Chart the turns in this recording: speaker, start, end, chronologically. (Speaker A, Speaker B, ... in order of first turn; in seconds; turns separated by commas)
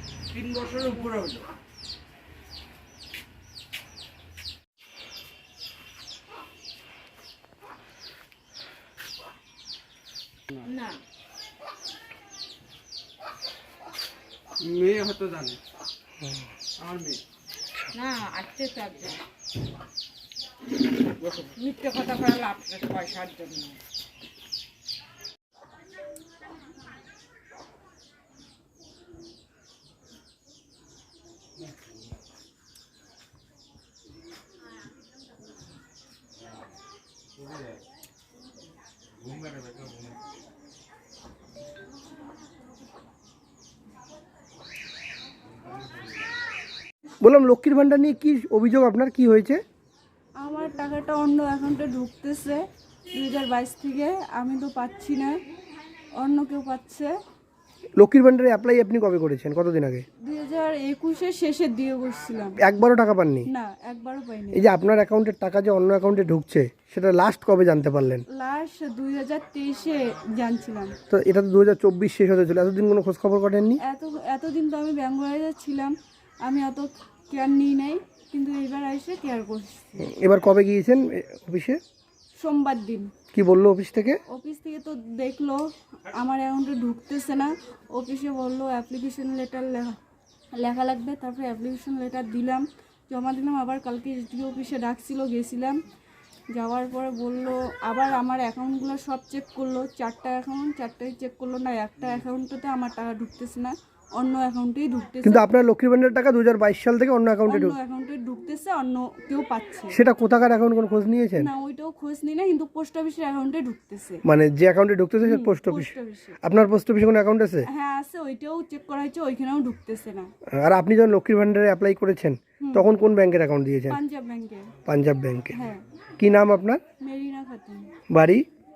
Speaker A: 0.3-1.4, Speaker B: 10.6-11.0, Speaker A: 14.6-15.6, Speaker A: 16.8-17.2, Speaker B: 17.9-19.2, Speaker A: 21.2-21.5, Speaker B: 21.5-23.8, Speaker C: 47.2-49.6, Speaker D: 50.4-55.4, Speaker D: 56.1-57.2, Speaker C: 58.0-60.0, Speaker D: 60.2-62.6, Speaker C: 62.6-63.5, Speaker D: 63.5-64.7, Speaker C: 64.5-68.2, Speaker D: 68.3-71.0, Speaker C: 71.1-73.8, Speaker D: 73.8-80.0, Speaker C: 80.0-81.8, Speaker D: 82.4-83.1, Speaker C: 83.3-84.2, Speaker D: 84.3-90.0, Speaker D: 90.5-95.8, Speaker D: 96.5-105.5, Speaker C: 105.2-107.8, Speaker D: 107.5-110.0, Speaker C: 109.9-111.5, Speaker D: 111.4-114.2, Speaker C: 114.2-117.7, Speaker D: 115.2-116.4, Speaker D: 117.7-120.3, Speaker C: 120.5-124.0, Speaker D: 122.6-122.9, Speaker D: 123.9-124.7, Speaker C: 124.8-125.6, Speaker D: 125.5-125.8, Speaker C: 126.2-126.8, Speaker D: 127.0-127.9, Speaker C: 128.1-128.4